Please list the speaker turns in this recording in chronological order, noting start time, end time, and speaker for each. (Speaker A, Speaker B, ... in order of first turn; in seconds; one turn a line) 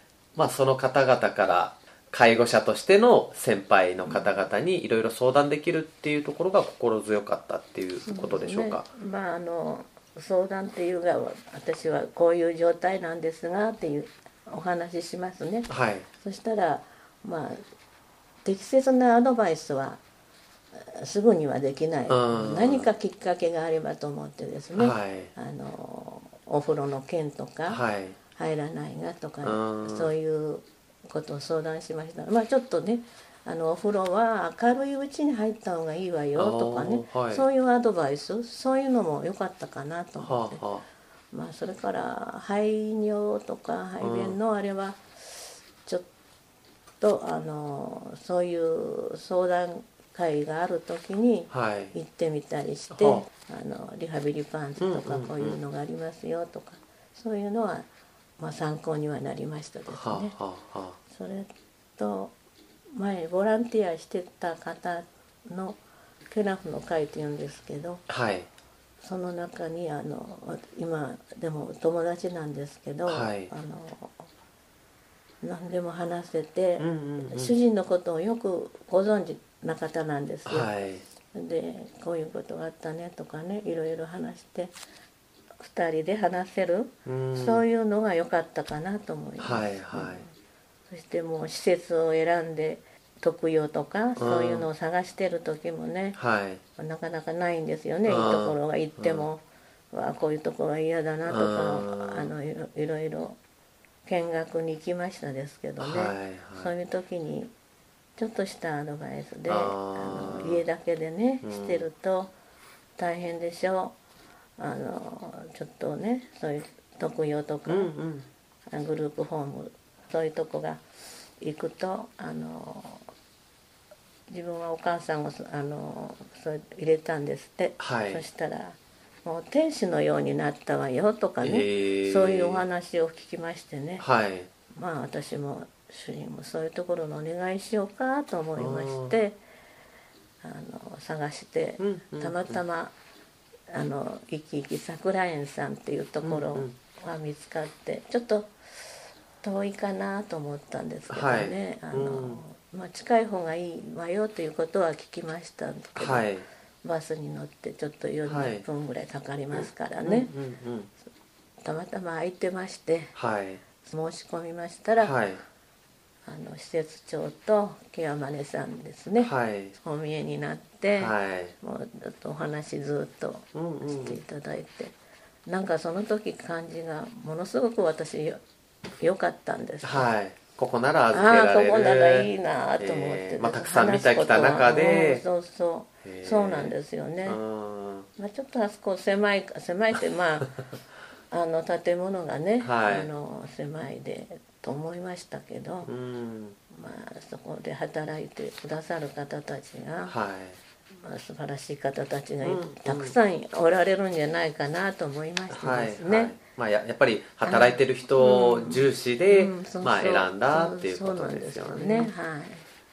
Speaker A: 0.4-8.9
Speaker B: 4.1-4.3
Speaker B: 8.1-17.6
Speaker A: 15.7-16.1
Speaker B: 18.4-20.0
Speaker B: 20.7-27.8
Speaker A: 22.1-22.9
Speaker A: 24.8-25.3
Speaker A: 27.7-28.2
Speaker B: 28.3-40.6
Speaker A: 29.4-30.1
Speaker A: 36.4-37.5
Speaker A: 40.2-40.9
Speaker B: 41.3-46.1
Speaker A: 44.0-44.4
Speaker B: 47.0-57.9
Speaker A: 51.5-52.0
Speaker A: 52.9-53.3
Speaker A: 54.8-55.6
Speaker B: 58.4-60.4
Speaker A: 59.9-61.0
Speaker B: 61.1-62.3
Speaker B: 62.9-65.8
Speaker B: 66.3-68.0
Speaker A: 68.1-68.5
Speaker B: 69.0-74.2
Speaker A: 73.1-73.5
Speaker B: 75.4-80.7
Speaker A: 76.8-77.5
Speaker A: 80.5-81.0
Speaker B: 81.3-84.8
Speaker B: 85.6-90.3
Speaker A: 87.0-87.7
Speaker A: 89.4-90.2
Speaker B: 90.9-96.2
Speaker A: 94.2-94.7
Speaker A: 96.2-96.6
Speaker B: 96.8-103.4
Speaker A: 98.1-99.3
Speaker A: 101.3-102.3
Speaker B: 104.1-107.5
Speaker A: 105.8-106.7
Speaker B: 108.2-112.3
Speaker A: 109.5-110.6
Speaker A: 111.4-111.8
Speaker B: 113.0-114.0
Speaker B: 114.6-117.9
Speaker A: 117.7-118.3
Speaker B: 118.7-120.8
Speaker B: 121.4-123.0
Speaker B: 124.3-134.1
Speaker A: 127.8-128.2
Speaker A: 131.4-132.7
Speaker A: 134.0-134.5
Speaker B: 134.8-139.4
Speaker A: 138.6-139.2
Speaker B: 140.4-142.9
Speaker A: 141.8-142.6
Speaker B: 143.7-148.5
Speaker A: 146.2-146.7
Speaker B: 149.4-156.3
Speaker A: 151.1-152.4
Speaker A: 156.0-156.5
Speaker B: 156.8-160.3
Speaker A: 158.3-158.7
Speaker A: 159.5-160.9
Speaker B: 161.6-163.1
Speaker A: 163.1-163.6
Speaker B: 163.8-165.2
Speaker A: 165.0-165.4
Speaker B: 166.3-174.9
Speaker A: 169.2-169.8
Speaker A: 171.0-171.6
Speaker A: 173.5-174.2
Speaker B: 175.5-178.4
Speaker B: 179.0-180.1
Speaker A: 179.8-185.2
Speaker B: 181.1-187.4
Speaker A: 186.0-186.7
Speaker A: 187.2-188.1
Speaker B: 188.2-190.6
Speaker B: 191.3-195.9
Speaker A: 192.6-193.1
Speaker A: 195.9-196.6
Speaker B: 196.7-200.2
Speaker A: 200.1-200.6
Speaker B: 201.0-206.4
Speaker A: 202.4-203.2
Speaker A: 205.5-212.1
Speaker B: 207.4-212.7